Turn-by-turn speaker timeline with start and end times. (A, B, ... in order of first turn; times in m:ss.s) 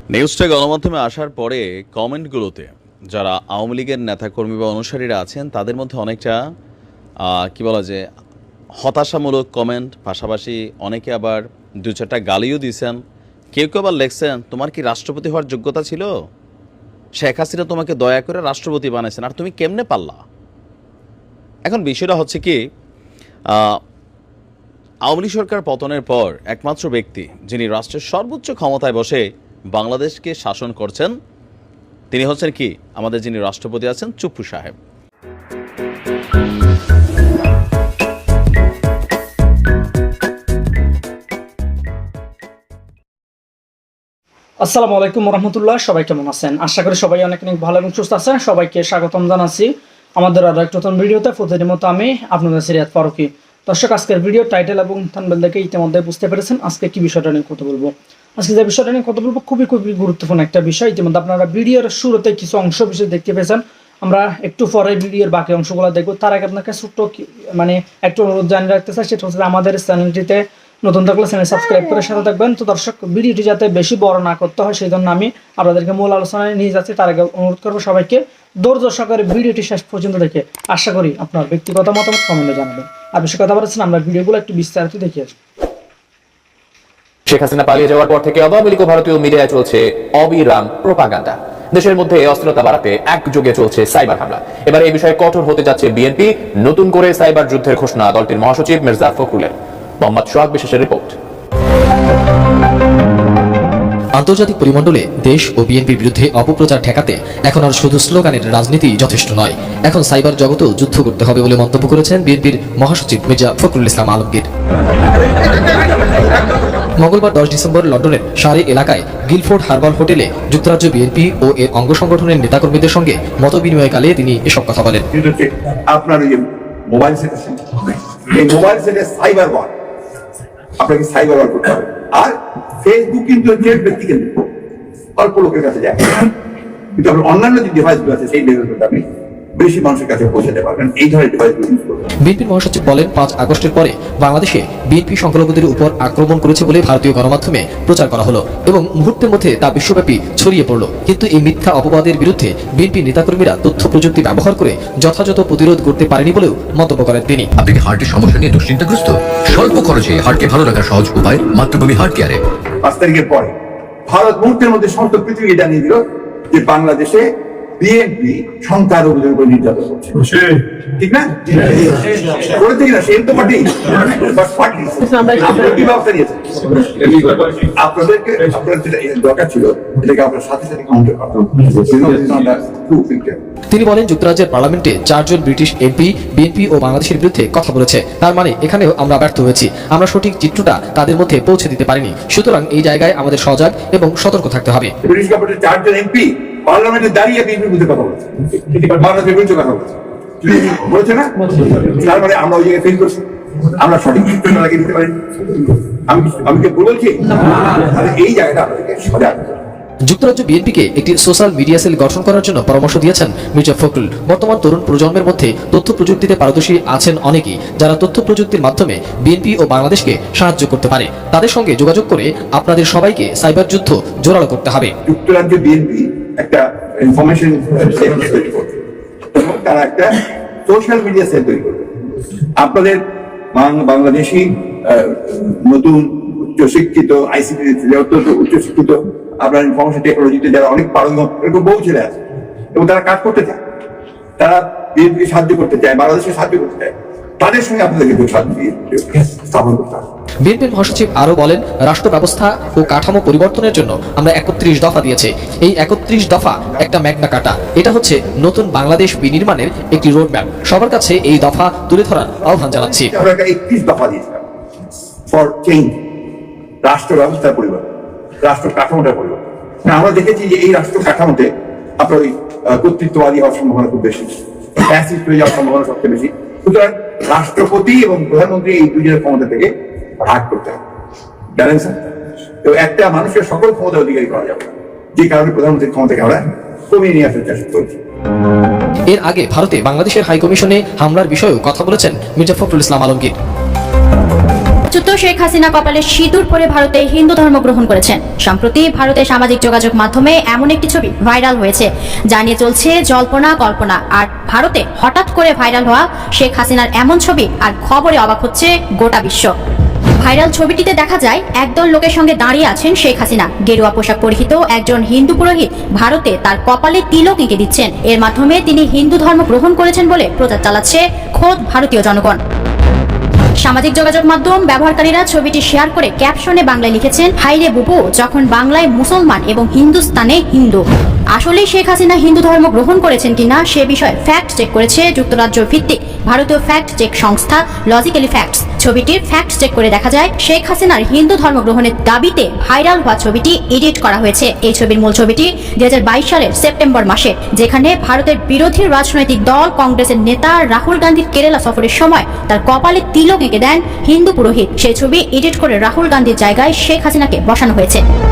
0:00.1-0:06.4 A
0:07.3-0:08.0 A
0:08.8-0:13.0 A
0:13.5-0:16.1 A
0:17.2-0:20.2 A
0:21.7-0:22.6 A
0:23.5-0:23.8 A
0:25.0-0:31.1 A
0:32.1-0:34.8 A
0:44.6-1:25.3 B
1:27.3-1:41.1 C
1:44.2-1:54.4 D
1:57.0-2:05.0 D
2:05.1-2:09.7 E
2:10.8-2:14.5 E
2:15.2-2:16.3 E
2:16.9-2:19.0 E
2:19.6-2:22.1 E
2:22.2-2:37.5 D
2:37.6-2:42.4 F
2:42.8-2:43.5 E
2:44.1-2:46.0 E
2:46.5-2:47.2 E
2:47.8-2:50.4 E
2:51.0-3:03.4 E
3:03.7-3:14.9 D
3:15.0-3:23.2 E
3:23.8-3:25.2 E
3:26.1-3:29.6 E
3:30.1-3:44.9 D
3:45.0-3:48.8 E
3:49.3-3:50.1 E
3:50.6-3:51.9 E
3:52.6-3:53.0 E
3:53.5-4:02.2 E
4:02.7-4:03.6 E
4:04.4-4:10.0 E
4:10.4-4:23.1 D
4:22.7-4:24.4 E
4:25.3-4:26.0 E
4:26.8-4:27.8 E
4:28.4-4:31.5 E
4:32.0-4:40.8 E
4:41.5-4:48.0 E
4:49.1-4:53.3 D
4:54.9-5:09.5 G
5:10.2-5:22.4 G
5:23.6-5:58.0 G